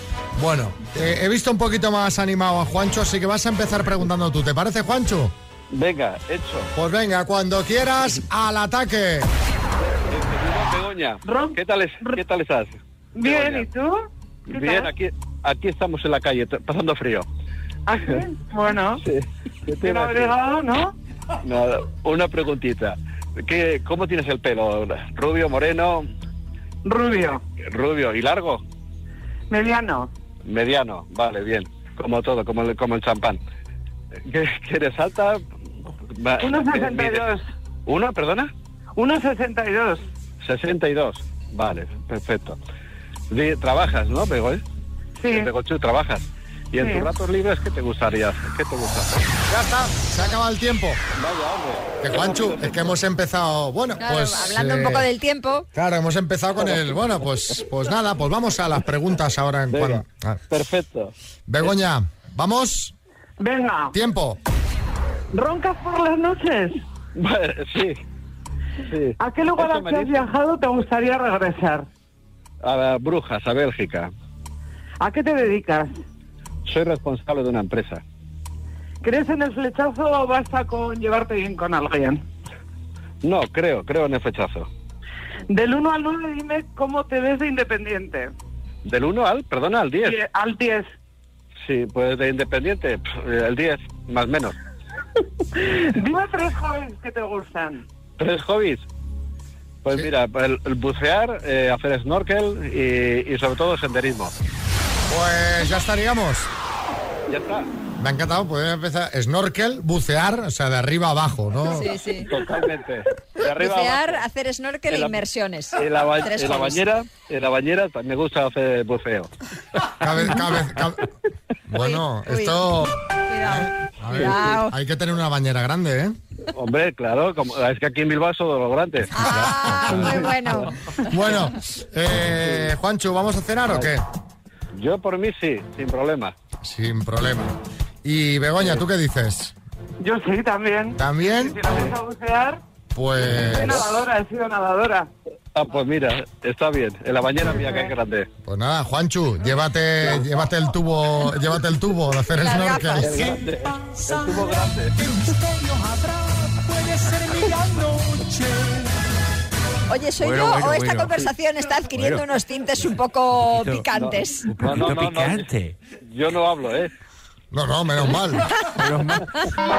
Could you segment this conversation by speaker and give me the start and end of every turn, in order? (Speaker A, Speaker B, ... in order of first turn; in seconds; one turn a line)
Speaker A: 0.4-5.3
Speaker B: 5.7-6.7
Speaker A: 6.7-9.3
Speaker B: 9.9-13.7
Speaker C: 13.3-13.9
Speaker B: 14.5-17.3
Speaker C: 14.5-14.9
Speaker C: 17.9-19.0
Speaker B: 18.0-18.2
Speaker B: 19.0-20.4
Speaker C: 19.9-20.9
Speaker B: 21.4-26.1
Speaker C: 26.9-27.4
Speaker B: 27.6-28.6
Speaker C: 29.5-30.1
Speaker B: 30.5-33.4
Speaker B: 34.2-35.5
Speaker B: 36.1-38.5
Speaker C: 36.4-37.4
Speaker C: 39.0-40.0
Speaker B: 40.4-42.6
Speaker B: 43.3-44.6
Speaker C: 45.2-45.5
Speaker B: 45.2-49.1
Speaker C: 46.8-47.1
Speaker A: 49.5-51.0
Speaker B: 51.1-52.9
Speaker A: 52.0-55.1
Speaker D: 54.0-55.7
Speaker A: 55.7-60.4
Speaker B: 59.7-61.1
Speaker A: 61.5-62.9
Speaker C: 63.4-63.9
Speaker A: 63.9-64.4
Speaker C: 65.3-66.8
Speaker B: 67.2-68.0
Speaker B: 68.8-70.3
Speaker C: 69.2-71.8
Speaker B: 72.6-74.1
Speaker C: 75.0-75.9
Speaker B: 76.7-78.0
Speaker C: 79.0-82.2
Speaker B: 83.2-84.7
Speaker C: 85.5-88.3
Speaker B: 88.8-90.2
Speaker C: 90.1-90.8
Speaker B: 91.6-94.6
Speaker C: 95.9-97.8
Speaker B: 98.2-98.8
Speaker B: 99.8-104.3
Speaker A: 105.1-106.5
Speaker B: 107.3-107.7
Speaker A: 108.0-111.9
Speaker D: 111.7-112.3
Speaker B: 112.2-114.2
Speaker D: 113.4-116.8
Speaker B: 114.9-115.2
Speaker B: 115.8-119.3
Speaker A: 120.0-121.1
Speaker A: 121.7-126.2
Speaker D: 121.8-122.6
Speaker D: 123.3-124.7
Speaker B: 126.5-130.7
Speaker D: 129.1-130.7
Speaker A: 129.4-129.7
Speaker A: 131.1-134.1
Speaker B: 132.4-132.7
Speaker B: 134.8-136.3
Speaker A: 136.6-139.5
Speaker C: 140.1-140.7
Speaker A: 141.0-141.6
Speaker B: 141.6-141.9
Speaker C: 141.9-142.5
Speaker A: 142.9-144.1
Speaker B: 143.2-143.5
Speaker C: 143.7-145.1
Speaker B: 145.6-148.3
Speaker A: 148.4-153.3
Speaker D: 152.4-153.3
Speaker B: 153.0-155.0
Speaker E: 156.9-158.1
Speaker D: 159.9-164.5
Speaker E: 160.2-161.3
Speaker E: 162.0-162.3
Speaker E: 163.5-163.8
Speaker B: 163.9-165.5
Speaker E: 164.6-165.8
Speaker B: 166.1-166.9
Speaker A: 167.5-168.5
Speaker E: 168.8-169.3